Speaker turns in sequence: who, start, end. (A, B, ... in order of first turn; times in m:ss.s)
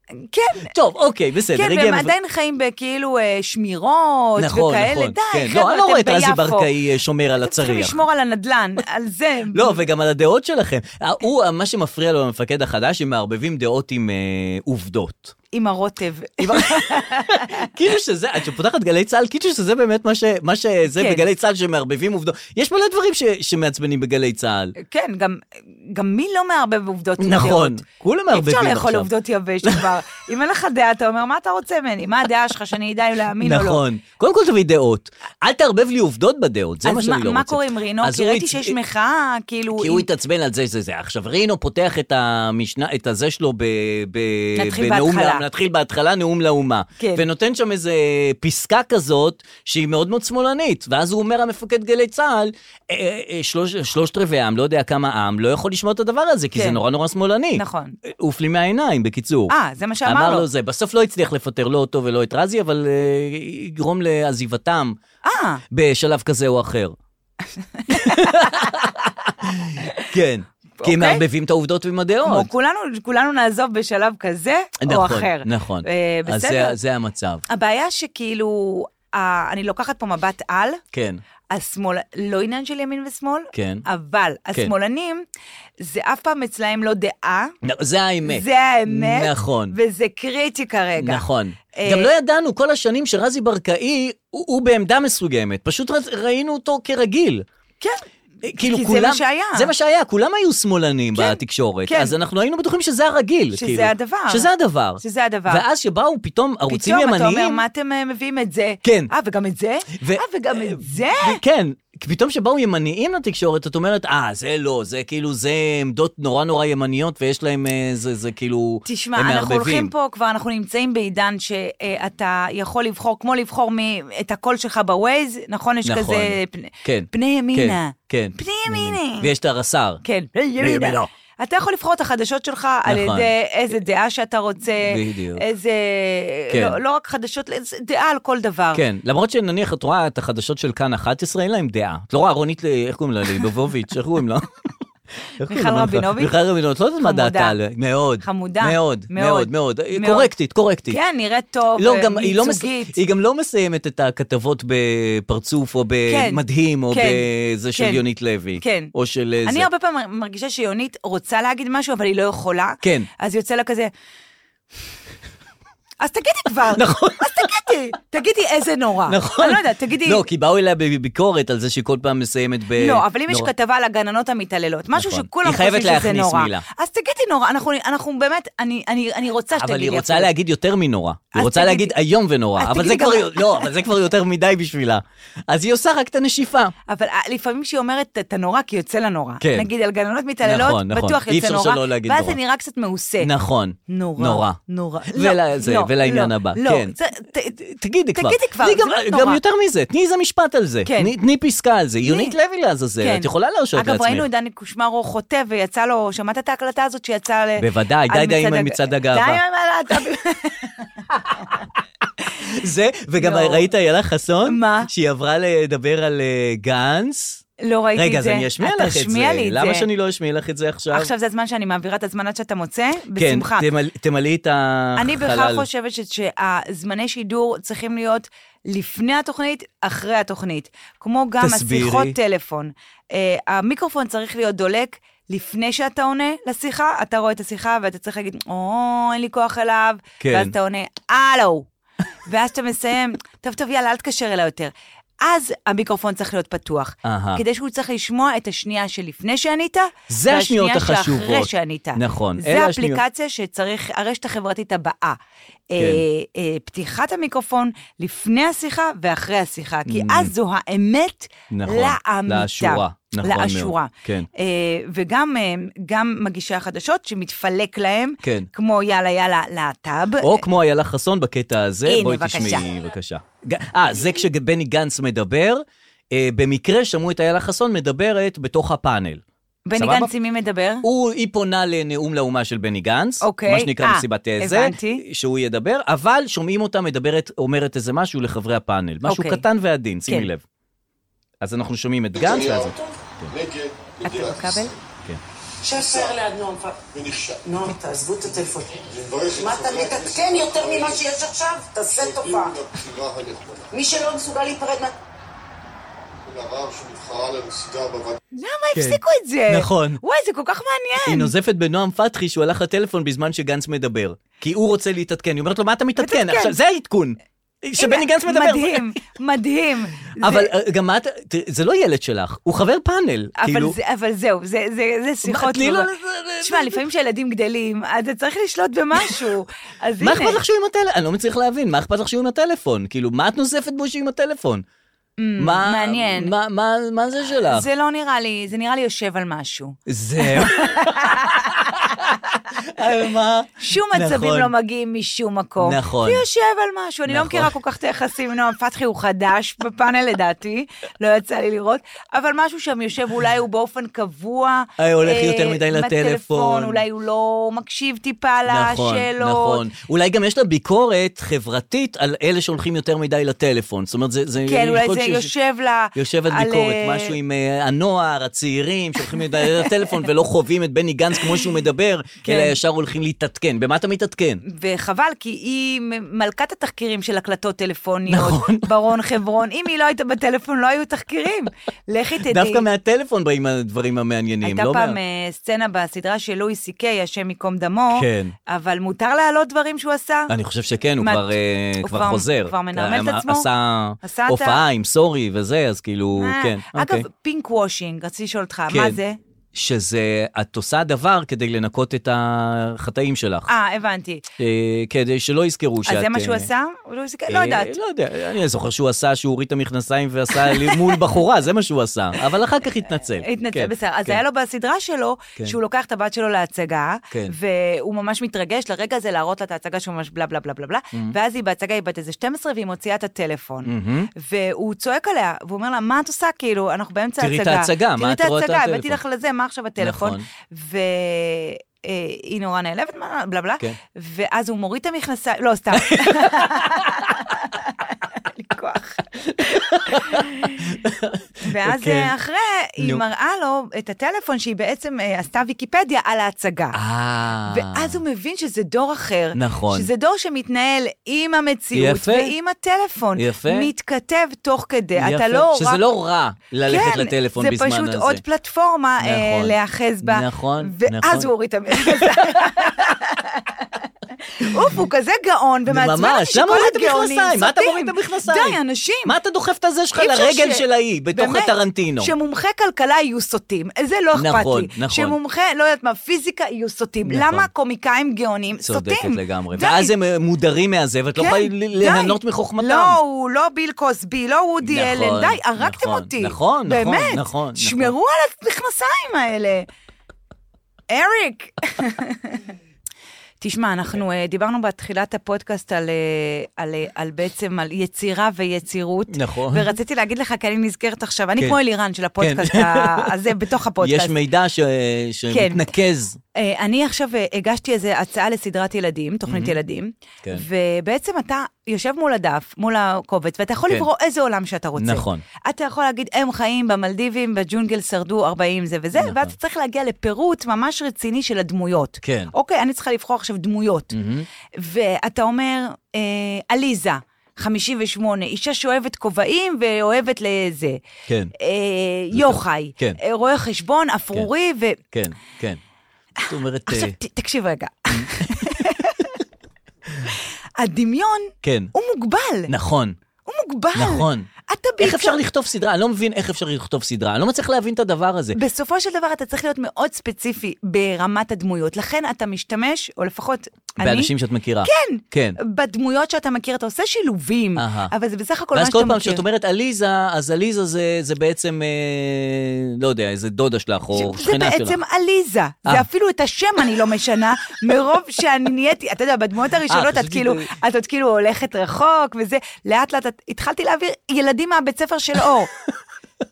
0:00.1-0:00.7 A
0:00.7-0:02.1 B
0:01.5-0:06.7 A
0:04.4-0:08.0 B
0:07.4-0:09.8 A
0:09.5-0:15.4 B
0:15.5-0:17.6 A
0:16.4-0:24.7 B
0:20.9-0:21.2 A
0:24.8-0:27.8 A
0:27.2-0:29.1 B
0:28.3-0:33.8 A
0:29.6-0:29.9 B
0:33.4-0:38.8 B
0:36.8-0:40.1 A
0:39.8-0:59.5 B
0:44.6-0:45.4 A
0:47.0-0:47.2 A
0:56.5-0:56.8 A
0:57.6-0:58.0 A
0:59.5-1:00.4 A
1:00.0-1:05.0 B
1:05.2-1:05.6 A
1:05.7-1:07.0 B
1:07.8-1:08.7 A
1:07.9-1:12.5 B
1:10.8-1:11.2 A
1:12.2-1:16.8 A
1:14.8-1:17.4 B
1:17.5-1:20.8 A
1:20.9-1:21.2 B
1:21.5-1:25.2 A
1:23.5-1:23.8 B
1:25.8-1:27.5 A
1:27.6-1:29.8 B
1:28.2-1:32.1 A
1:31.0-1:37.4 B
1:38.4-1:47.6 B
1:38.6-1:39.7 A
1:41.1-1:42.1 A
1:43.5-1:45.6 A
1:46.7-1:51.4 A
1:48.8-1:49.1 B
1:49.9-1:59.9 B
1:58.8-2:09.3 A
2:05.8-2:10.0 B
2:10.0-2:18.8 A
2:10.6-2:11.1 B
2:12.9-2:13.3 B
2:14.9-2:15.4 B
2:16.5-2:16.8 B
2:18.7-2:24.5 B
2:25.4-2:31.0 B
2:25.5-2:26.3 A
2:27.0-2:27.6 A
2:28.2-2:30.3 A
2:30.9-2:33.0 A
2:31.8-2:39.7 B
2:36.1-2:38.0 A
2:38.6-2:38.9 A
2:39.4-2:43.9 A
2:42.8-2:43.1 B
2:46.0-2:50.2 A
2:46.7-2:47.7 B
2:49.1-2:53.5 B
2:52.8-3:00.3 A
2:54.9-2:56.6 B
2:59.5-3:06.7 B
3:01.3-3:01.9 A
3:02.6-3:03.7 A
3:06.9-3:13.3 A
3:09.4-3:09.7 B
3:10.4-3:12.4 B
3:13.2-3:17.0 B
3:13.9-3:17.6 A
3:17.6-3:24.2 B
3:18.1-3:19.4 A
3:20.8-3:21.1 A
3:22.0-3:22.3 A
3:23.0-3:31.6 A
3:27.6-3:29.4 B
3:32.4-3:41.1 B
3:33.2-3:33.7 A
3:34.4-3:34.9 A
3:37.6-3:39.8 A
3:40.9-3:43.7 A
3:43.2-3:45.6 B
3:45.0-4:01.7 A
3:51.4-3:52.2 B
4:00.2-4:00.5 B
4:02.2-4:15.2 A
4:07.0-4:07.4 B
4:10.1-4:13.0 B
4:15.7-4:30.4 A
4:15.8-4:16.0 B
4:19.9-4:20.3 B
4:21.5-4:24.3 B
4:28.2-4:28.5 B
4:30.2-4:39.2 B
4:31.8-4:32.6 A
4:39.7-4:40.8 A
4:39.8-4:40.1 B
4:40.8-4:50.4 B
4:43.2-4:45.0 A
4:49.0-4:49.4 A
4:51.4-4:53.4 B
4:54.0-4:54.7 A
4:55.6-5:02.6 C
5:03.7-5:04.9 C
5:08.3-5:11.3 A
5:08.7-5:10.0 B
5:11.0-5:18.9 B
5:16.0-5:16.6 A
5:17.8-5:20.5 A
5:20.2-5:23.7 B
5:23.4-5:25.9 A
5:25.2-5:26.8 B
5:26.4-5:30.4 A
5:30.0-5:34.6 B
5:35.2-5:36.3 A
5:35.4-5:37.7 B
5:37.5-5:42.0 A
5:39.9-5:44.5 B
5:43.6-5:59.6 A
5:45.6-5:46.2 B
5:47.1-5:47.5 B
5:54.8-5:56.8 B
5:58.5-6:05.3 B
6:04.4-6:07.1 A
6:05.9-6:14.4 B
6:09.0-6:10.0 A
6:12.2-6:12.6 A
6:14.4-6:22.6 A
6:18.1-6:18.7 B
6:22.2-6:25.0 B
6:24.4-6:30.3 A
6:27.9-6:28.3 B
6:30.3-6:37.0 B
6:31.0-6:33.5 A
6:34.0-6:34.6 A
6:36.2-6:39.2 A
6:38.7-6:39.0 B
6:39.5-6:43.5 B
6:43.5-6:44.2 A
6:44.4-6:46.5 B
6:45.8-6:47.7 A
6:47.3-6:54.2 B
6:50.5-6:50.9 A
6:53.1-7:19.0 A
7:03.6-7:04.1 B
7:07.2-7:09.0 B
7:09.8-7:10.2 B
7:15.8-7:17.1 B
7:19.3-7:22.1 B
7:19.9-7:20.6 A
7:21.4-7:26.8 A
7:22.8-7:23.0 B
7:26.7-7:28.0 B
7:27.5-7:35.8 A
7:29.3-7:29.9 B
7:31.7-7:32.3 B
7:33.2-7:33.7 B
7:35.0-7:38.2 B
7:36.6-7:43.7 A
7:39.0-7:42.9 B
7:44.3-7:49.1 A
7:45.7-7:52.1 B
7:50.0-7:59.9 A
7:54.1-7:55.2 B
7:57.0-7:57.5 B
7:58.6-8:03.0 B
8:01.2-8:09.6 A
8:04.6-8:07.9 B
8:10.9-8:12.4 A
8:13.4-8:24.2 A
8:19.1-8:19.7 B
8:22.2-8:23.1 B
8:23.8-8:26.2 B
8:25.3-8:25.7 A
8:26.4-8:43.9 A
8:29.3-8:29.6 B
8:34.8-8:35.2 B
8:38.9-8:39.3 B
8:42.0-8:42.3 B
8:43.9-8:44.3 B
8:44.6-8:50.8 A
8:51.1-8:51.3 B
8:51.4-8:54.8 A
8:52.1-8:53.0 B
8:54.9-8:55.6 B
8:56.3-8:57.0 B
8:56.7-8:59.1 A
8:57.9-8:59.1 B
9:00.6-9:02.5 A
9:01.4-9:01.7 B
9:02.5-9:03.0 B
9:03.2-9:05.2 A
9:03.7-9:04.3 B
9:04.8-9:08.4 B
9:08.3-9:14.1 A
9:13.8-9:15.4 B
9:14.6-9:19.2 A
9:17.6-9:17.9 B
9:18.5-9:24.8 B
9:23.9-9:35.5 A
9:29.7-9:30.5 B